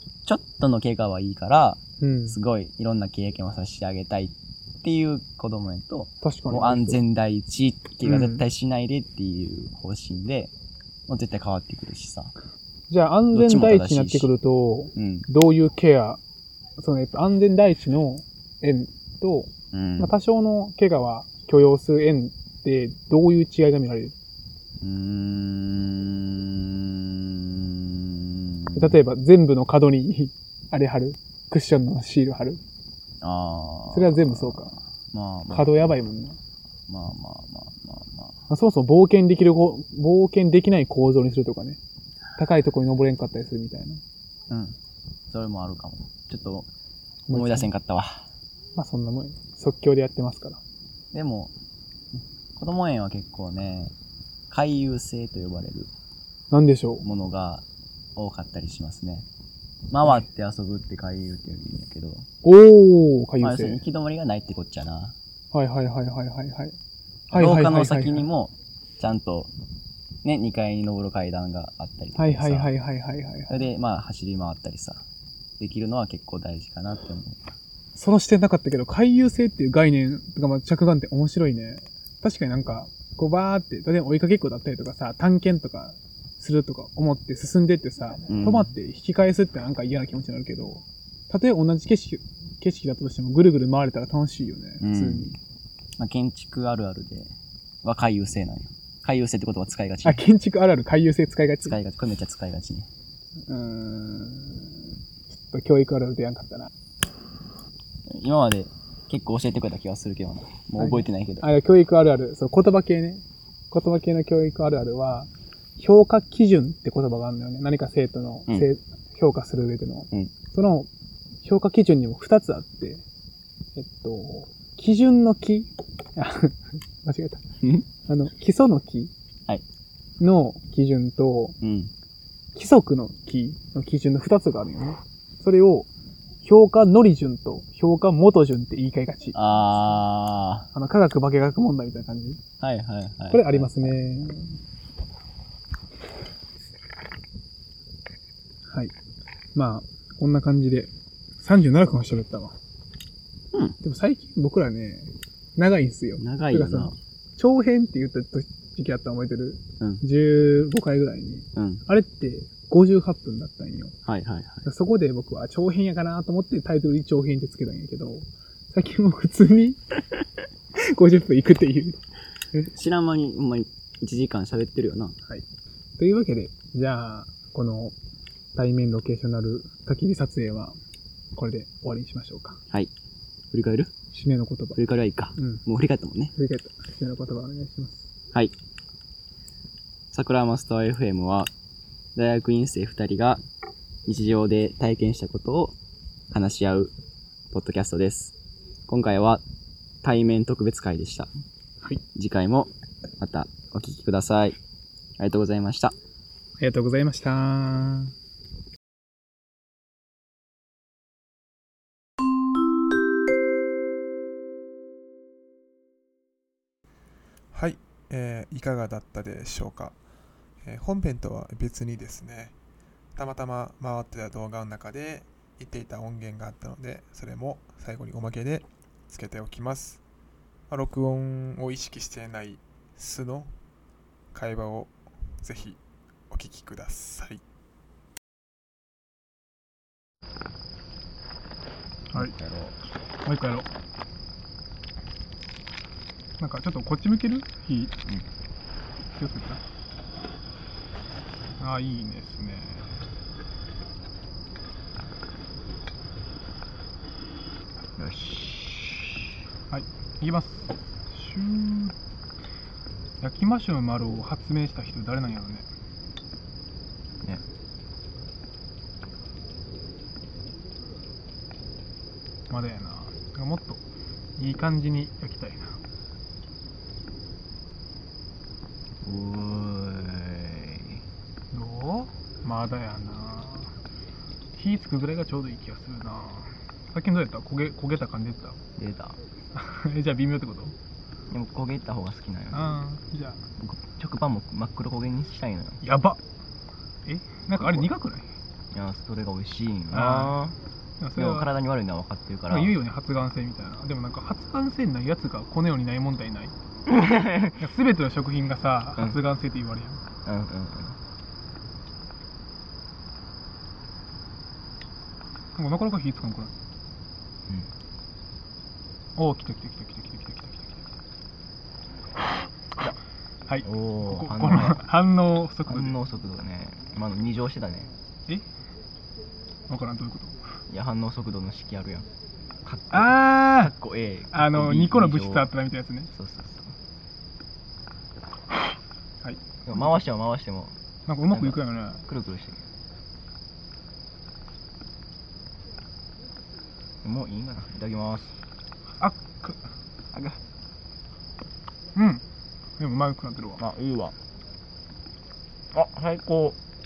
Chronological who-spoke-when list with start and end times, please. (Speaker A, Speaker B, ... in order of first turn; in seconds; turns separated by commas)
Speaker A: 0.2-10.5, Speaker B: 2.0-2.4, Speaker B: 6.2-7.0, Speaker B: 8.0-8.4, Speaker A: 11.1-12.3, Speaker B: 12.9-16.2, Speaker A: 13.3-14.3, Speaker A: 14.9-15.3, Speaker B: 16.8-24.1, Speaker A: 19.7-20.1, Speaker A: 24.8-28.9, Speaker B: 28.7-32.6, Speaker A: 33.2-35.9, Speaker B: 33.9-34.8, Speaker B: 35.5-36.4, Speaker A: 36.9-38.4, Speaker B: 38.5-41.8, Speaker B: 42.4-44.0, Speaker A: 44.5-44.8, Speaker A: 45.3-46.7, Speaker B: 47.3-47.7, Speaker A: 47.3-48.3, Speaker B: 48.8-50.6, Speaker A: 51.1-51.5, Speaker A: 52.1-53.9, Speaker A: 54.5-55.9, Speaker B: 56.5-57.0, Speaker A: 57.0-57.6, Speaker A: 58.1-59.2, Speaker A: 59.9-62.3, Speaker B: 62.4-63.8, Speaker A: 63.4-65.2, Speaker B: 65.5-66.7, Speaker B: 67.3-68.2, Speaker A: 67.3-69.5, Speaker A: 70.2-72.7, Speaker B: 72.2-73.6, Speaker A: 73.5-75.0, Speaker A: 75.6-77.5, Speaker B: 77.9-95.3, Speaker A: 88.3-88.7, Speaker A: 94.8-95.4, Speaker A: 96.0-100.2, Speaker B: 100.0-101.8, Speaker A: 101.6-102.9, Speaker B: 103.5-104.7, Speaker B: 105.3-106.7, Speaker A: 108.1-111.5, Speaker B: 110.8-120.9, Speaker B: 121.4-123.0, Speaker B: 123.8-127.4, Speaker B: 128.1-129.1, Speaker B: 130.2-131.6, Speaker A: 131.6-131.9, Speaker B: 132.5-135.9, Speaker B: 136.4-139.4, Speaker A: 139.3-140.7, Speaker B: 140.7-142.4, Speaker A: 142.6-143.9, Speaker B: 143.3-144.5, Speaker B: 149.5-152.6, Speaker A: 153.5-153.8, Speaker B: 153.8-163.9, Speaker A: 156.2-157.0, Speaker A: 161.5-161.8, Speaker A: 164.1-164.6, Speaker B: 164.6-169.8, Speaker B: 170.8-172.0, Speaker A: 172.7-175.2, Speaker B: 176.0-177.9, Speaker B: 178.5-180.8, Speaker B: 181.3-182.6, Speaker A: 183.5-183.9, Speaker B: 184.1-184.8, Speaker A: 184.7-186.3, Speaker B: 185.3-185.6, Speaker B: 186.3-188.1, Speaker A: 190.1-191.5, Speaker A: 192.1-193.4, Speaker A: 194.1-195.8, Speaker A: 196.3-196.9, Speaker A: 197.5-198.3, Speaker A: 198.9-199.4, Speaker A: 200.0-201.3, Speaker A: 202.1-204.6, Speaker A: 205.2-205.9, Speaker B: 206.6-208.1, Speaker C: 217.5-219.9, Speaker C: 220.6-222.5, Speaker C: 223.2-230.0, Speaker C: 230.7-233.5, Speaker C: 234.3-235.8, Speaker C: 236.3-237.4, Speaker A: 242.1-242.8, Speaker B: 243.2-243.7, Speaker B: 246.4-247.9, Speaker B: 249.2-249.6, Speaker B: 251.6-252.9, Speaker A: 257.9-259.3, Speaker B: 259.7-261.9, Speaker B: 263.2-265.7, Speaker B: 272.5-273.8, Speaker B: 274.4-275.8, Speaker A: 279.0-281.0, Speaker B: 281.5-283.7, Speaker B: 284.6-288.6, Speaker A: 288.8-289.2, Speaker B: 289.5-290.7, Speaker A: 291.3-292.7, Speaker B: 292.5-293.4, Speaker A: 293.6-295.8, Speaker B: 295.8-296.2, Speaker B: 297.1-298.3, Speaker A: 297.5-297.9, Speaker A: 298.7-300.6, Speaker B: 299.9-300.4, Speaker B: 301.0-301.5, Speaker A: 301.2-302.7, Speaker B: 302.5-306.5, Speaker A: 306.9-307.6, Speaker B: 307.6-310.0, Speaker A: 310.2-311.0, Speaker B: 315.6-316.5, Speaker B: 319.2-320.8, Speaker B: 323.5-326.0, Speaker A: 323.6-324.8, Speaker A: 325.7-327.9, Speaker B: 329.7-330.4, Speaker A: 330.7-332.1, Speaker A: 332.6-335.5, Speaker B: 332.9-333.7, Speaker B: 334.3-336.1, Speaker A: 336.1-336.7, Speaker A: 339.6-340.8, Speaker B: 341.1-342.1, Speaker A: 341.3-342.6, Speaker A: 347.0-348.4, Speaker B: 349.0-349.6, Speaker A: 350.1-350.4, Speaker B: 351.9-352.2, Speaker B: 352.8-353.6, Speaker A: 353.6-354.1, Speaker A: 355.7-356.6